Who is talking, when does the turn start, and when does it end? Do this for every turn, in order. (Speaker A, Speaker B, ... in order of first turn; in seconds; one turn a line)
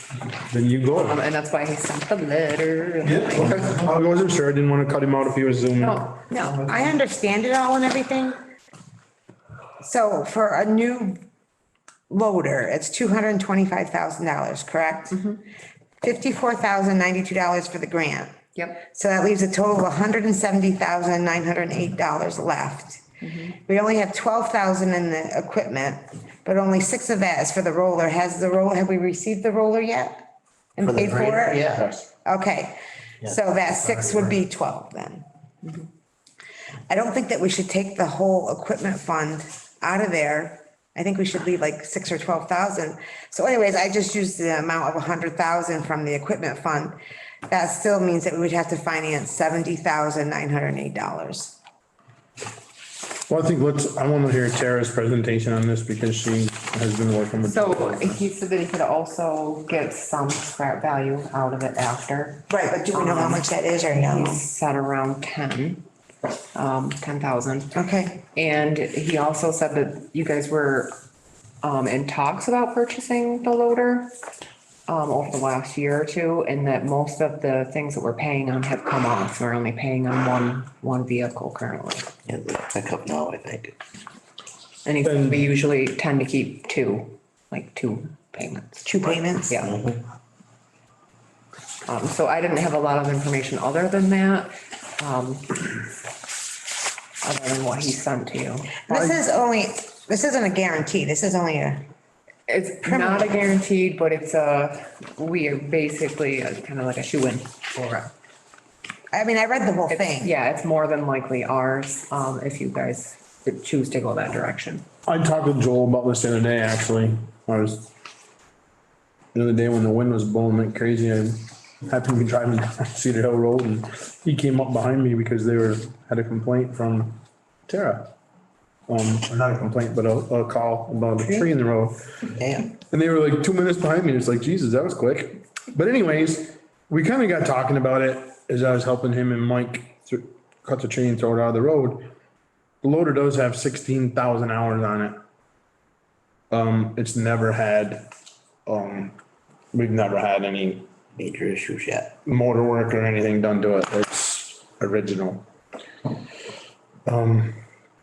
Speaker A: 0.3-1.2
Speaker B: 1.1-3.5
Speaker A: 3.0-6.3
Speaker B: 5.8-6.8
Speaker C: 6.3-8.4
Speaker C: 9.8-11.2
Speaker C: 12.1-15.2
Speaker C: 16.0-30.2
Speaker C: 30.8-31.7
Speaker D: 30.8-31.9
Speaker C: 32.2-35.2
Speaker D: 33.2-34.4
Speaker C: 36.9-47.0
Speaker C: 47.5-51.6
Speaker A: 53.3-58.3
Speaker B: 57.5-62.4
Speaker C: 62.5-64.4
Speaker B: 63.0-63.4
Speaker B: 64.1-65.8
Speaker B: 66.5-67.7
Speaker C: 67.7-68.2
Speaker B: 68.3-70.9
Speaker B: 71.6-74.1
Speaker B: 74.9-82.1
Speaker D: 82.2-83.7
Speaker B: 84.8-88.8
Speaker A: 85.0-85.5
Speaker C: 88.8-89.7
Speaker D: 89.6-90.0
Speaker B: 91.9-95.6
Speaker B: 97.2-98.9
Speaker C: 98.9-101.9
Speaker B: 102.5-108.1
Speaker C: 102.8-103.3
Speaker C: 109.1-110.3
Speaker B: 109.9-114.9
Speaker A: 115.0-117.9
Speaker A: 119.3-128.1
Speaker A: 128.9-132.1
Speaker D: 132.3-132.7
Speaker A: 132.8-142.1
Speaker A: 142.8-145.2
Speaker A: 146.5-148.1
Speaker A: 148.7-149.2
Speaker A: 149.7-150.8
Speaker D: 151.2-152.1
Speaker A: 152.2-155.4
Speaker A: 157.1-157.6